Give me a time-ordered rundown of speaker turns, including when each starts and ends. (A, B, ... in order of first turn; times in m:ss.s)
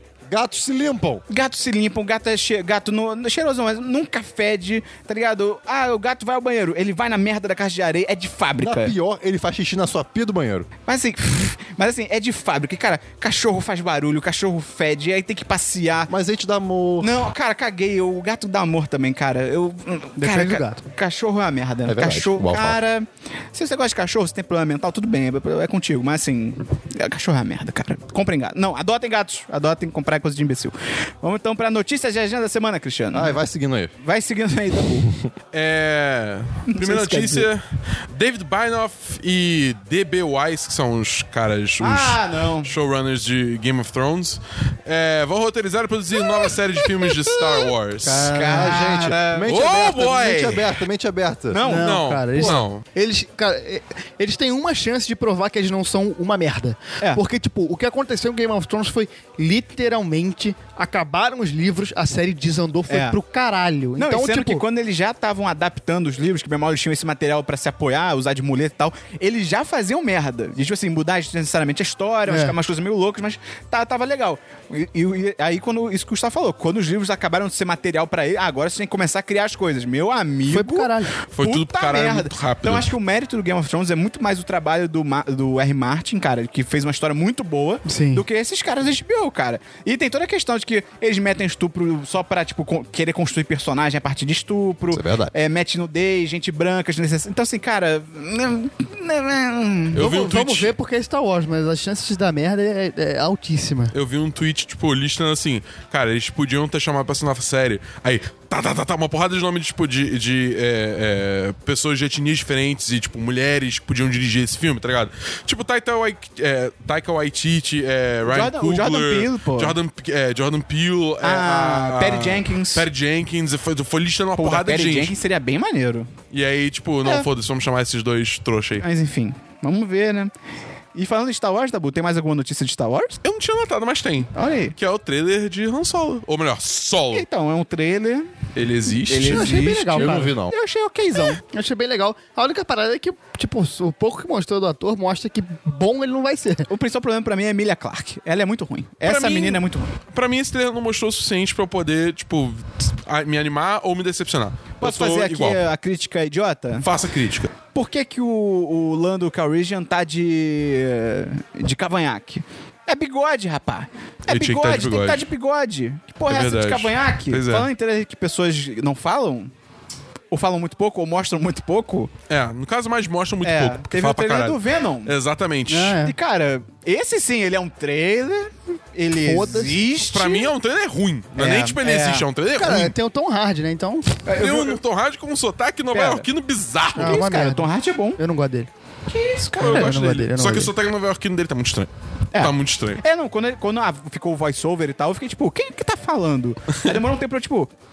0:00.3-0:01.2 A
0:01.3-0:08.9 B
0:08.6-0:10.7 A
0:10.9-0:16.1 B
0:16.1-0:17.2 A
0:17.0-0:33.4 B
0:20.2-0:20.8 C
0:21.9-0:22.8 A
0:33.1-0:33.9 A
0:34.0-0:35.1 B
0:35.5-0:48.4 D
0:36.7-0:37.5 B
0:41.8-0:42.7 B
0:47.0-0:49.5 B
0:48.0-0:51.6 A
0:49.5-0:50.7 D
0:51.5-0:52.6 B
0:51.6-1:04.6 C
0:51.7-0:52.8 D
1:02.9-1:03.2 B
1:04.0-1:40.1 B
1:12.3-1:12.6 C
1:20.5-1:21.2 C
1:21.3-1:22.9 D
1:27.9-1:28.2 C
1:34.9-1:35.3 A
1:40.0-1:40.7 D
1:40.0-1:43.9 C
1:43.9-2:05.2 D
1:58.2-1:59.8 B
2:01.2-2:02.9 B
2:04.4-2:06.1 B
2:06.3-2:08.8 D
2:08.8-2:10.3 B
2:10.9-2:13.2 B
2:13.2-2:17.3 D
2:14.3-2:14.8 B
2:17.1-2:18.3 B
2:18.6-2:19.7 D
2:19.1-2:21.4 B
2:19.2-2:20.3 C
2:19.9-2:20.5 A
2:21.3-2:26.7 C
2:26.7-2:29.9 B
2:29.0-2:35.6 D
2:34.8-2:36.9 B
2:36.8-2:37.5 D
2:37.7-2:49.5 B
2:44.3-2:45.2 D
2:46.3-2:47.7 D
2:50.3-2:52.1 B
2:52.3-2:56.0 D
2:53.4-2:55.2 B
2:55.7-3:00.5 B
2:55.7-2:56.1 C
2:59.1-2:59.8 C
3:00.0-3:03.0 D
3:01.4-3:02.3 B
3:02.5-3:04.2 C
3:04.2-3:04.8 B
3:04.4-3:07.3 D
3:05.9-3:06.3 B
3:07.0-3:08.2 B
3:07.0-3:08.7 C
3:09.1-3:10.0 B
3:09.6-3:13.0 D
3:09.6-3:10.7 C
3:12.3-3:17.7 B